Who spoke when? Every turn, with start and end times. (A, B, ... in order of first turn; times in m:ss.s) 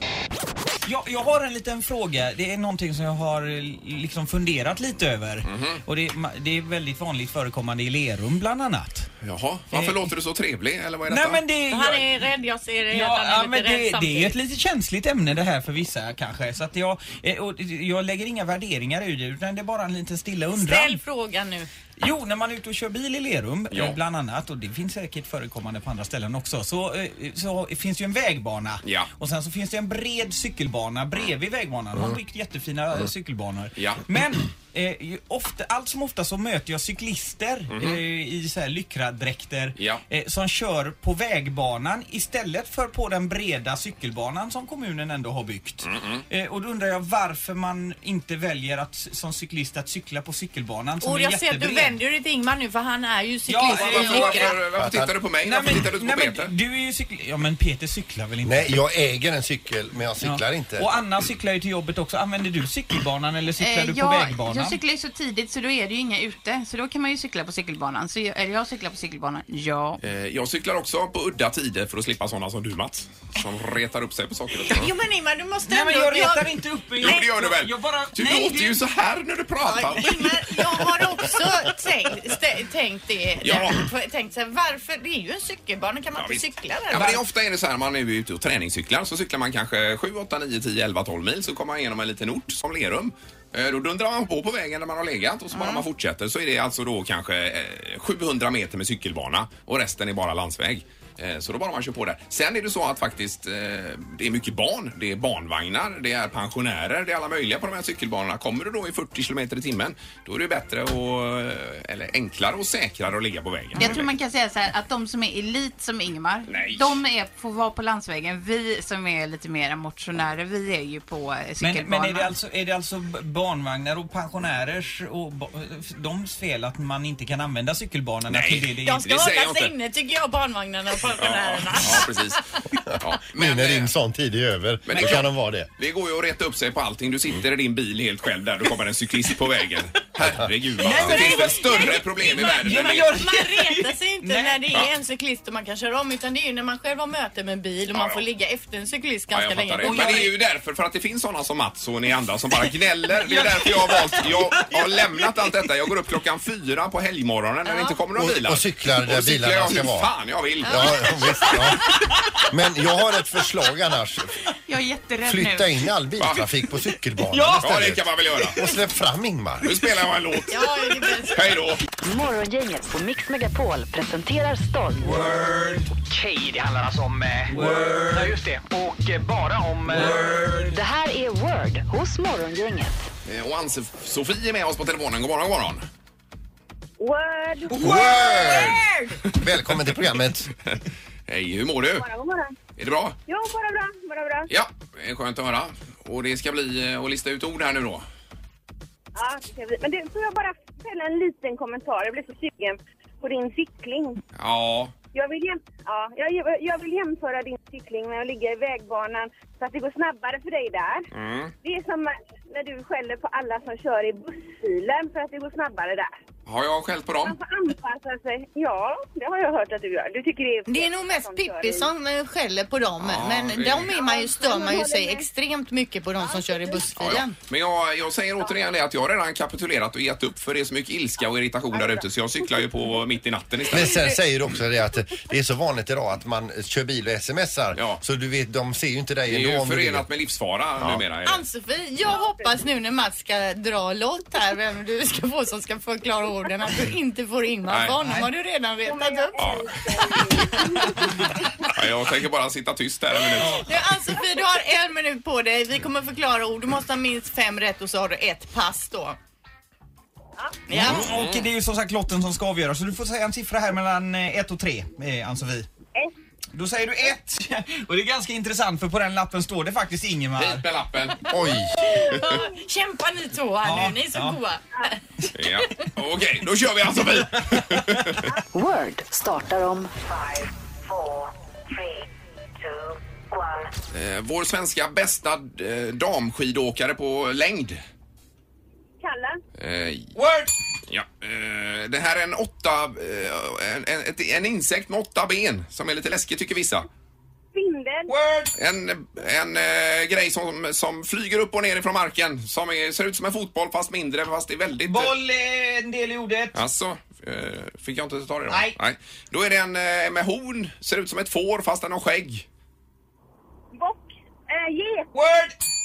0:00.8-0:09.1 A
0:05.4-0:05.8 B
0:09.2-0:11.4 B
0:09.7-0:10.1 A
0:11.1-0:12.1 A
0:11.7-0:14.4 C
0:12.9-0:21.0 A
0:20.5-0:21.7 C
0:22.0-0:52.0 A
0:23.7-0:24.0 B
0:28.8-0:29.1 B
0:33.8-0:34.0 B
0:37.7-0:38.0 B
0:39.8-0:40.0 B
0:45.8-0:46.2 B
0:51.0-0:54.6 C
0:53.5-0:54.6 A
0:53.7-0:56.5 B
0:54.8-0:55.2 D
0:55.4-0:58.8 A
0:58.4-1:01.0 D
1:00.2-1:04.8 A
1:03.6-1:10.0 E
1:10.0-1:14.9 B
1:14.6-1:17.1 C
1:15.6-1:18.8 A
1:17.0-1:20.3 B
1:19.6-1:27.2 C
1:23.4-1:23.8 B
1:26.2-1:54.1 B
1:35.5-1:35.8 C
1:53.8-2:02.3 E
1:56.5-1:57.0 B
2:01.6-2:09.1 A
2:08.3-2:09.7 B
2:08.8-2:12.3 C
2:11.1-2:12.4 B
2:12.9-2:15.7 D
2:13.0-2:13.9 B
2:14.9-2:23.1 B
2:20.2-2:20.5 D
2:20.8-2:24.7 A
2:22.5-2:30.3 C
2:27.9-2:28.2 B
2:29.3-2:41.0 B
2:29.8-2:30.3 A
2:32.6-2:35.5 A
2:37.6-2:38.0 C
2:38.2-2:40.1 D
2:40.6-2:40.9 C
2:40.6-2:42.0 D
2:41.5-2:42.5 A
2:42.5-2:44.4 D
2:44.7-2:45.7 E
2:45.2-2:49.8 D
2:46.2-2:46.5 B
2:47.2-2:47.9 A
2:47.6-2:48.6 B
2:49.6-2:50.8 B
2:50.5-2:51.5 C
2:51.3-2:51.8 B
2:52.0-2:55.3 F
2:55.0-2:55.9 A
2:56.0-3:00.7 G
2:57.5-2:58.4 A
2:59.9-3:00.7 A
3:00.7-3:03.0 F
3:03.2-3:05.9 B
3:07.0-3:08.1 H
3:07.7-3:09.1 A
3:07.8-3:08.8 D
3:09.4-3:10.5 D
3:10.7-3:12.1 B
3:12.0-3:12.6 H
3:12.8-3:13.2 B
3:13.3-3:14.5 H
3:14.5-3:18.1 B
3:19.2-3:24.2 H
3:24.4-3:24.9 B
3:25.1-3:31.1 H
3:31.1-3:31.5 B
3:31.6-3:36.1 H
3:36.5-3:37.4 B
3:37.2-3:41.9 H
3:40.7-3:47.4 C
3:43.0-3:43.9 B
3:43.9-3:45.3 H
3:46.2-3:46.9 H
3:47.0-3:54.2 B
3:51.7-3:53.0 H
3:53.6-3:54.2 H
3:53.7-4:00.1 D
3:57.8-3:58.0 B
3:59.3-4:01.4 B
4:00.8-4:01.0 D
4:01.3-4:09.6 C
4:02.0-4:02.6 H
4:07.7-4:08.0 B
4:08.0-4:08.3 A
4:08.8-4:11.2 H
4:09.4-4:09.8 B
4:11.0-4:11.5 C
4:11.7-4:14.2 B
4:13.4-4:13.7 A
4:13.4-4:19.2 C
4:20.4-4:20.6 H
4:20.7-4:21.1 C
4:20.7-4:25.7 A
4:20.8-4:21.5 B
4:26.5-4:30.7 A
4:30.4-4:31.3 B
4:31.3-4:31.8 D
4:31.8-4:35.0 C
4:33.6-4:34.4 A
4:35.4-4:38.4 B
4:38.5-4:40.3 F
4:43.9-4:47.8 B
4:49.0-4:49.4 H
4:49.6-4:50.1 B
4:50.2-4:50.5 A
4:50.9-4:56.9 B
4:57.5-4:58.1 H
4:58.1-4:58.5 A
4:58.6-5:05.2 B
5:04.8-5:06.6 A
5:06.5-5:12.5 B
5:08.5-5:08.8 A
5:13.7-5:15.1 H
5:15.1-5:15.6 A